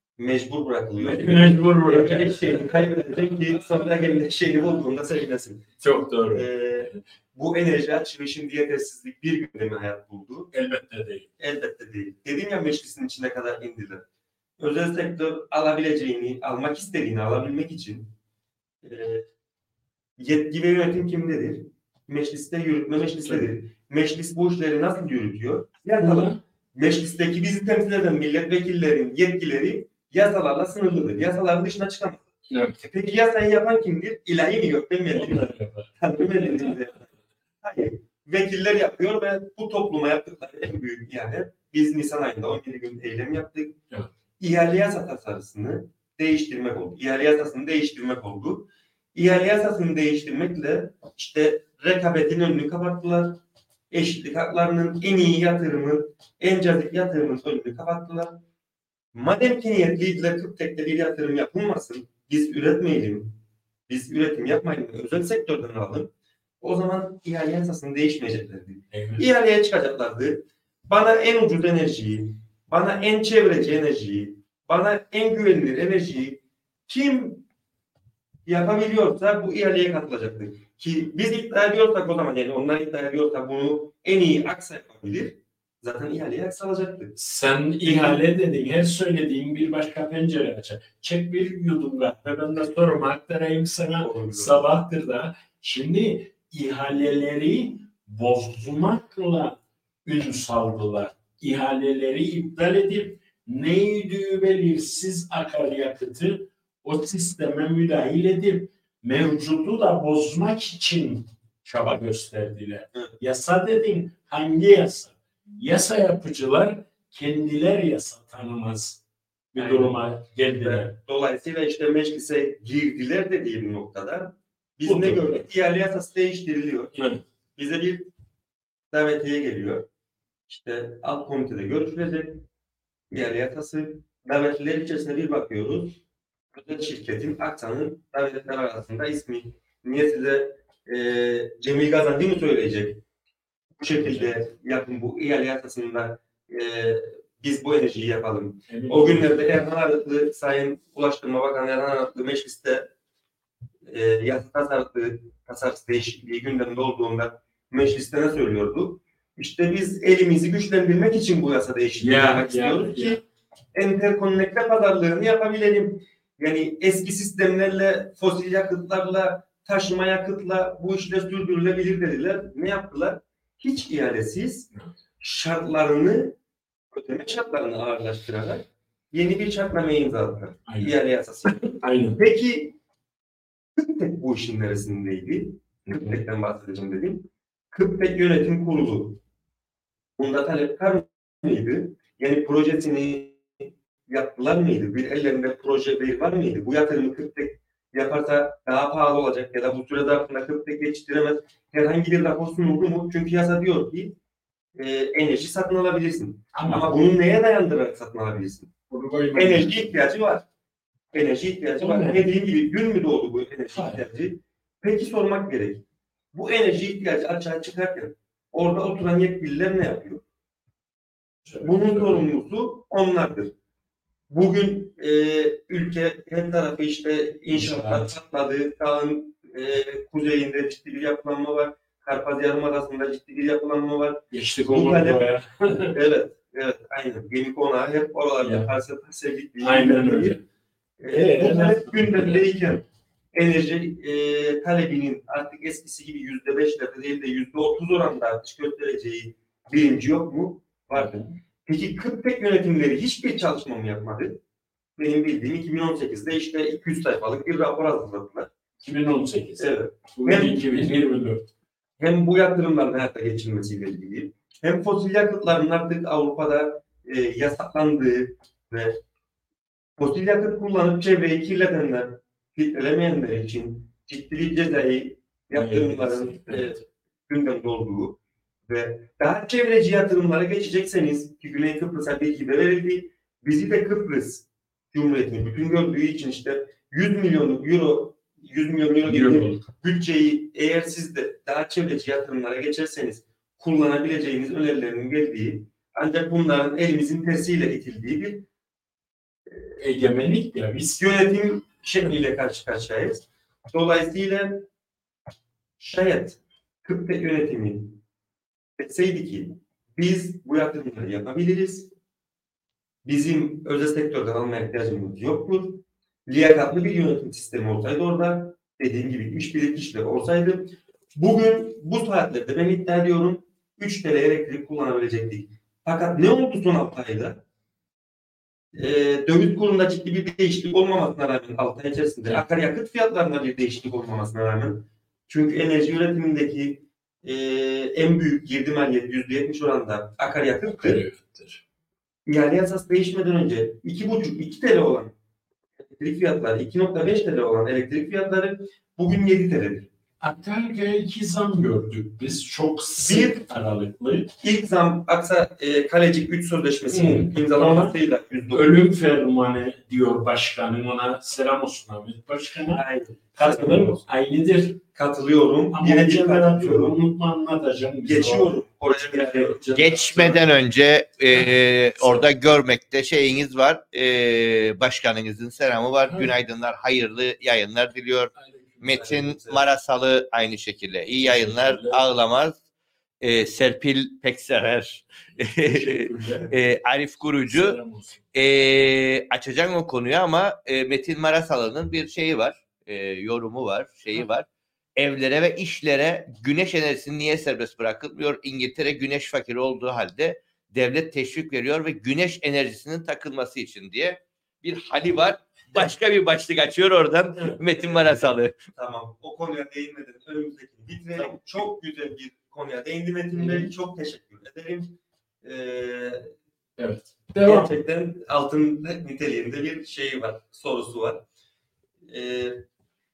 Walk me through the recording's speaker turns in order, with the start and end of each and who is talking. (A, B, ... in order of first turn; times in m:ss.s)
0:00.2-0:05.7 A
0:01.0-0:03.7 B
0:05.8-0:07.0 B
0:06.3-0:10.5 A
0:10.5-0:11.3 B
0:11.4-0:14.0 A
0:14.6-0:18.1 A
0:18.8-0:19.2 A
0:20.2-0:32.3 A
0:26.0-0:26.4 B
0:32.5-0:32.8 B
0:32.8-0:37.0 A
0:35.1-0:36.8 B
0:37.6-0:43.8 A
0:44.4-0:58.4 A
0:59.1-1:03.4 A
1:03.9-1:17.5 A
1:08.9-1:09.2 B
1:18.5-1:27.2 A
1:27.2-1:59.0 B
1:27.8-1:28.2 A
1:34.0-1:34.6 A
1:59.5-2:01.0 B
1:59.6-2:00.0 A
2:00.6-2:07.0 A
2:04.8-2:05.4 B
2:07.0-2:07.2 B
2:07.6-2:08.1 A
2:08.9-2:09.8 A
2:10.5-2:12.4 A
2:13.1-2:16.0 A
2:16.5-2:23.0 A
2:23.8-2:32.9 A
2:23.9-2:24.3 B
2:28.7-2:29.3 B
2:33.8-2:43.2 A
2:42.0-2:43.2 B
2:43.7-2:54.7 A
2:55.2-2:56.4 A
2:56.9-3:02.8 A
3:00.7-3:02.2 B
3:03.8-3:09.2 A
3:05.9-3:06.2 B
3:10.2-3:24.2 A
3:24.8-3:28.7 A
3:26.5-3:27.0 B
3:28.9-3:29.9 B
3:29.4-3:30.4 A
3:31.1-3:40.2 A
3:31.8-3:32.2 B
3:33.7-3:34.0 B
3:41.4-3:42.3 B
3:41.6-3:43.5 A
3:44.3-3:55.2 A
3:47.5-3:48.2 B
3:54.3-3:56.0 B
3:55.9-4:00.4 A
3:58.4-3:58.7 B
3:59.6-4:00.4 B
4:01.0-4:11.1 A
4:01.1-4:02.5 B
4:10.9-4:11.3 B
4:11.7-4:14.4 A
4:15.0-4:18.5 A
4:18.8-4:21.5 B
4:19.6-4:20.9 A
4:22.0-4:29.0 A
4:30.0-4:58.5 A
4:35.5-4:36.8 B
4:49.0-4:49.7 B
4:59.8-5:01.0 B
5:01.0-5:04.7 A
5:05.8-5:08.0 A
5:08.8-5:11.9 A
5:13.0-5:27.4 A
5:28.7-5:41.0 A
5:40.7-5:41.6 B
5:42.3-5:45.1 A
5:45.8-5:49.9 A
5:50.2-5:54.3 B
5:53.0-5:53.4 A
5:54.4-5:58.8 A
5:56.9-5:58.0 B
5:58.5-6:04.8 B
6:02.7-6:04.1 A
6:05.0-6:07.0 A
6:05.7-6:10.6 B
6:08.0-6:09.7 A
6:09.8-6:22.6 C
6:11.3-6:12.3 B
6:16.1-6:16.3 B
6:18.4-6:19.6 B
6:21.2-6:22.1 B
6:23.2-6:27.8 C
6:25.7-6:26.6 B
6:27.4-6:28.2 B
6:28.3-6:48.6 C
6:47.8-6:48.2 A
6:48.8-6:56.3 A
6:53.4-6:53.7 B
6:56.8-6:57.7 B
6:57.4-7:01.2 A
7:02.1-7:02.6 A